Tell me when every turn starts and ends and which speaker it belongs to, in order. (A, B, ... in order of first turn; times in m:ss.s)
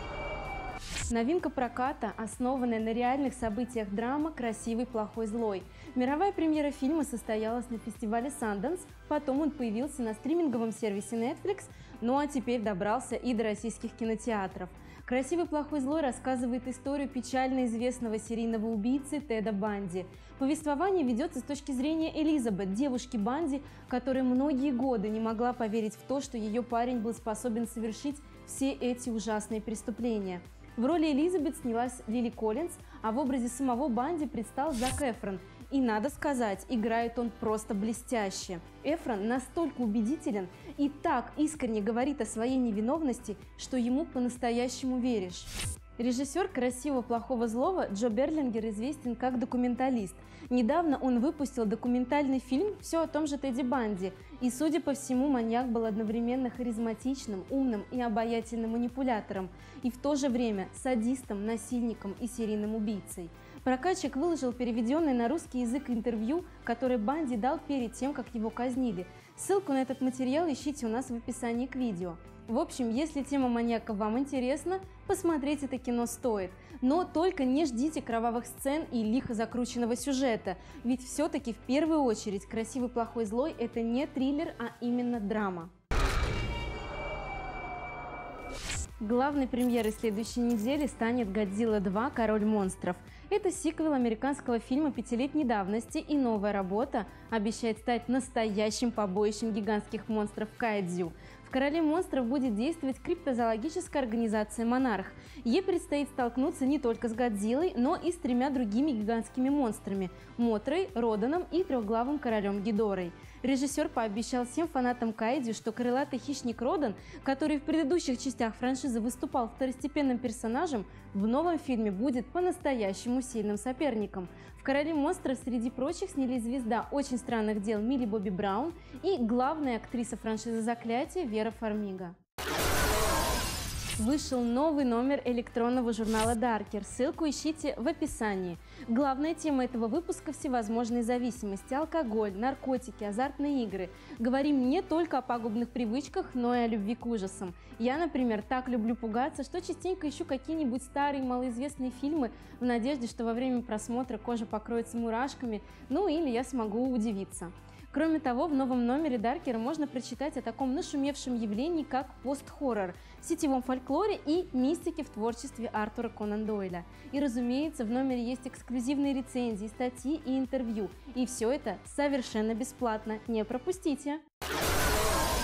0:01.1-1:25.7 A
1:29.0-2:12.2 A
2:14.0-2:54.2 A